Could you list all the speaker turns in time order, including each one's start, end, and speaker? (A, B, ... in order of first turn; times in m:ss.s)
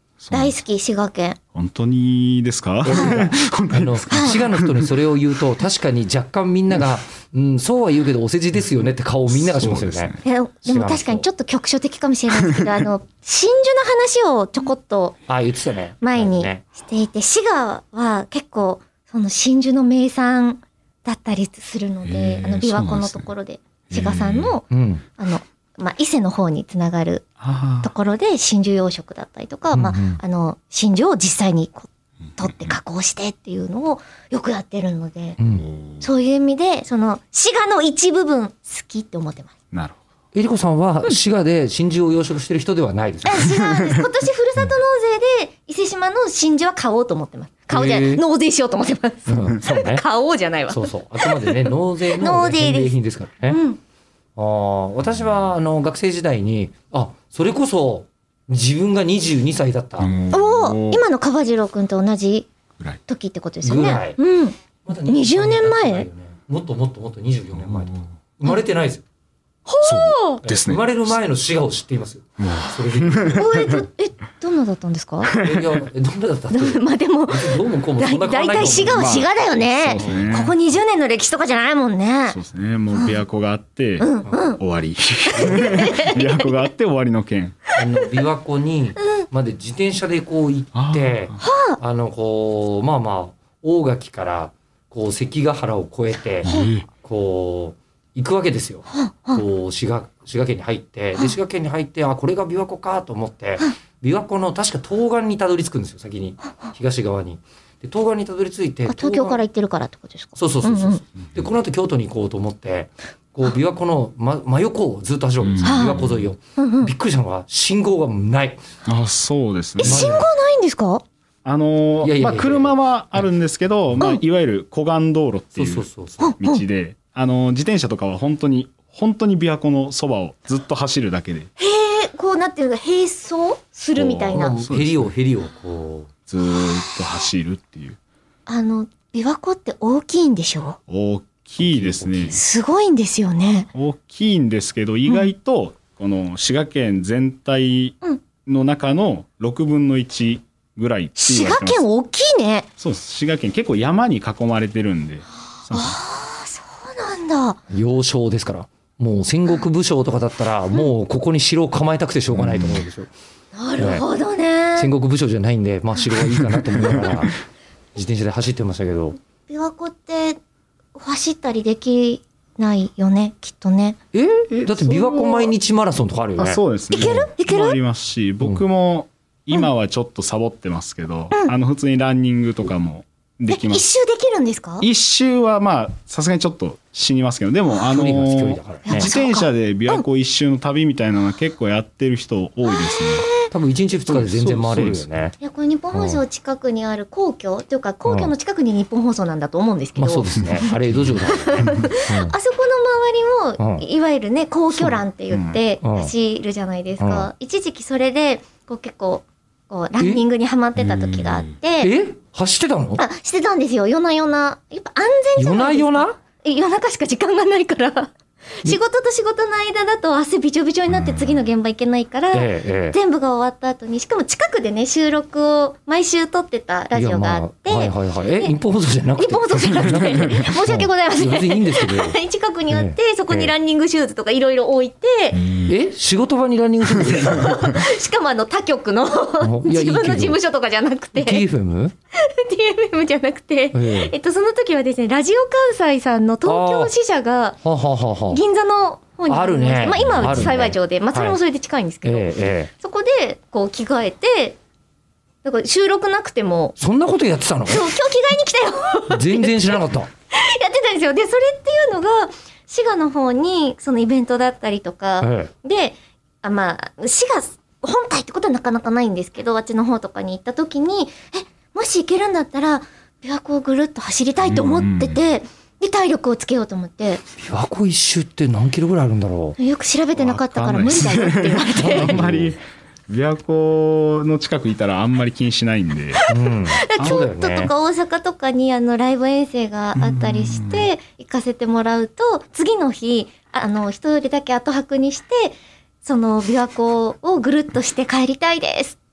0:00.2-0:00.6 A
0:00.3-0:01.4 B
0:01.5-0:04.9 A
0:02.8-0:11.3 C
0:02.9-0:03.2 B
0:04.1-0:04.4 B
0:09.3-0:10.2 A
0:10.2-0:15.2 B
0:12.4-0:12.7 A
0:15.3-0:16.6 C
0:16.0-0:24.6 B
0:22.0-0:23.3 A
0:23.9-0:24.6 A
0:24.7-0:25.0 C
0:25.2-0:27.3 B
0:27.4-0:27.9 A
0:27.8-0:35.4 B
0:29.7-0:30.2 C
0:35.4-0:35.7 C
0:35.6-0:36.1 A
0:36.0-0:39.5 B
0:39.7-0:40.0 A
0:40.3-0:43.6 C
0:43.2-0:52.9 B
0:43.7-0:44.0 A
0:47.7-0:48.2 C
0:49.3-0:50.0 C
0:50.7-0:53.6 C
0:53.5-0:53.8 B
0:54.4-1:00.1 C
1:00.0-1:01.0 A
1:00.3-1:02.5 B
1:03.1-1:04.6 B
1:03.6-1:04.2 C
1:04.9-1:09.0 C
1:05.1-1:06.1 B
1:07.6-1:08.0 A
1:09.7-1:10.4 B
1:09.8-1:11.2 A
1:10.4-1:13.4 C
1:12.4-1:13.8 A
1:13.3-1:15.4 B
1:15.2-1:15.8 A
1:15.4-1:19.2 C
1:16.5-1:22.4 B
1:18.6-1:20.5 A
1:19.9-1:20.4 C
1:22.3-1:27.6 A
1:24.0-1:24.6 B
1:25.3-1:26.5 B
1:25.4-1:25.9 C
1:27.8-1:36.5 C
1:30.8-1:31.4 A
1:31.4-1:31.8 B
1:36.4-1:36.9 A
1:37.0-1:49.4 C
1:39.0-1:39.4 B
1:48.9-1:51.0 B
1:50.4-1:58.6 C
1:55.4-1:56.3 A
1:55.6-1:56.0 B
1:56.6-1:56.9 B
1:58.8-2:00.1 A
1:59.8-2:01.0 B
1:59.8-2:00.3 C
2:01.4-2:05.9 A
2:02.0-2:02.8 C
2:05.6-2:06.4 C
2:06.2-2:06.6 B
2:06.4-2:11.5 A
2:11.6-2:14.6 B
2:14.0-2:15.1 A
2:14.3-2:16.1 C
2:16.3-2:18.0 A
2:18.5-2:20.8 B
2:20.9-2:22.4 A
2:21.6-2:22.4 C
2:22.3-2:23.7 B
2:23.8-2:31.8 A
2:31.2-2:32.7 B
2:32.8-2:36.0 A
2:35.7-2:37.6 B
2:37.7-2:43.1 C
2:42.3-2:42.8 A
2:43.6-2:44.9 B
2:43.8-2:44.0 C
2:44.8-2:47.4 C
2:46.2-2:47.3 A
2:48.0-2:49.2 C
2:49.5-2:50.4 B
2:51.0-2:54.0 B
2:54.1-2:56.6 C
2:54.5-2:55.5 A
2:56.4-3:03.8 A
2:56.9-2:57.8 B
3:03.5-3:04.9 B
3:04.8-3:13.3 A
3:07.9-3:09.1 C
3:08.9-3:10.0 B
3:12.6-3:13.5 B
3:13.5-3:15.4 C
3:14.1-3:15.1 A
3:15.4-3:31.9 B
3:15.9-3:16.2 C
3:18.1-3:18.3 C
3:20.0-3:22.3 C
3:23.6-3:23.8 C
3:25.3-3:25.6 A
3:25.8-3:26.1 C
3:27.0-3:27.3 C
3:30.0-3:30.2 C
3:30.8-3:31.5 A
3:31.8-3:33.0 C
3:33.0-3:48.5 B
3:35.4-3:36.2 C
3:40.9-3:41.4 A
3:42.3-3:43.0 C
3:46.9-3:52.2 C
3:49.2-3:55.4 B
3:52.7-3:53.5 C
3:55.4-3:55.7 A
3:55.6-3:57.6 C
3:57.2-4:01.4 B
3:59.4-4:00.4 C
4:01.1-4:01.9 C
4:02.1-4:07.6 B
4:03.7-4:04.1 C
4:06.4-4:06.9 C
4:07.6-4:08.4 C
4:08.3-4:14.6 B
4:09.3-4:11.4 C
4:10.0-4:10.6 A
4:12.0-4:12.7 C
4:15.4-4:16.8 B
4:16.8-4:17.9 C
4:17.7-4:19.8 B
4:19.1-4:20.1 C
4:20.3-4:37.2 B
4:25.2-4:25.5 C
4:34.4-4:35.2 A
4:37.4-4:39.6 C
4:39.6-4:42.2 B
4:40.2-4:46.2 A
4:41.8-4:42.6 C
4:46.2-4:59.0 B
4:46.3-4:47.7 C
4:47.0-4:47.3 A
4:50.0-4:50.9 A